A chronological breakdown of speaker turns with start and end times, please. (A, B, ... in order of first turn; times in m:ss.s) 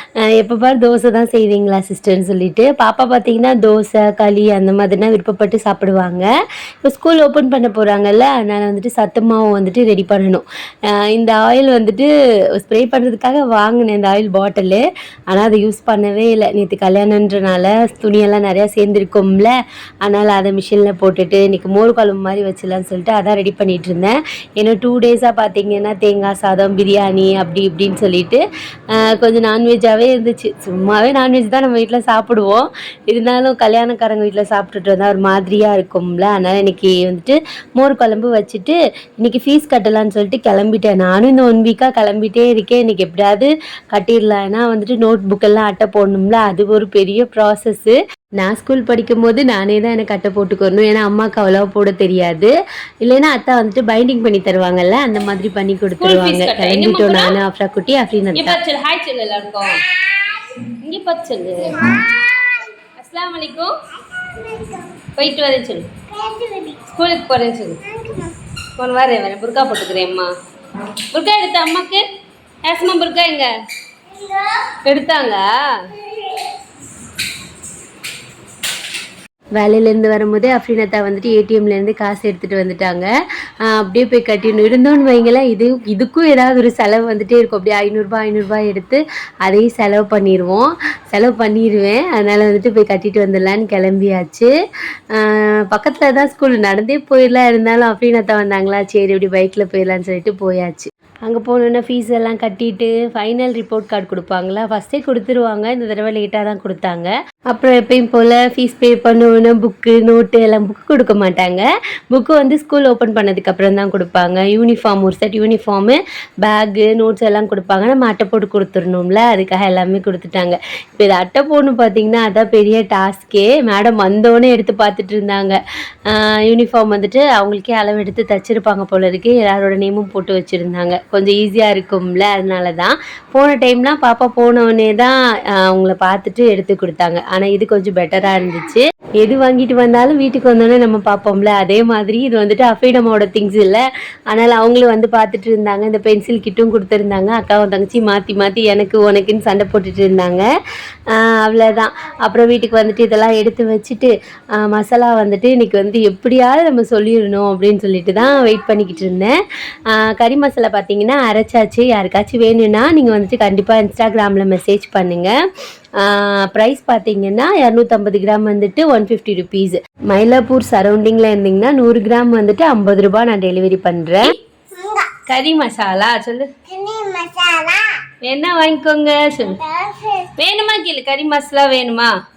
0:00.3-0:06.3 A
0:06.8-0:10.4 A
0:11.0-0:12.1 A
0:12.6-0:19.5 A
0:20.0-0:28.4 A
0:29.0-0:52.5 A
0:53.0-0:58.6 A
0:56.0-0:57.4 B
0:58.4-0:59.8 B
0:59.7-1:00.7 C
1:00.8-1:01.8 B
1:01.6-1:02.8 C
1:03.0-1:03.7 B
1:04.0-1:05.0 C
1:05.2-1:05.9 B
1:06.1-1:06.9 C
1:06.9-1:07.8 B
1:07.8-1:08.4 C
1:08.8-1:10.3 B
1:11.1-1:12.0 B
1:12.6-1:13.5 B
1:14.1-1:14.7 C
1:14.8-1:15.9 B
1:19.6-1:23.1 A
1:23.6-1:34.5 A
1:35.2-2:05.6 A
2:06.1-2:30.5 A
2:31.1-2:34.1 A
2:34.6-2:39.3 A
2:39.9-2:45.3 A
2:46.0-2:54.4 A
2:54.7-2:55.1 C
2:55.3-2:56.5 B
2:56.7-2:57.8 C
2:58.2-2:59.6 B
2:59.4-3:00.3 C
3:00.4-3:02.1 B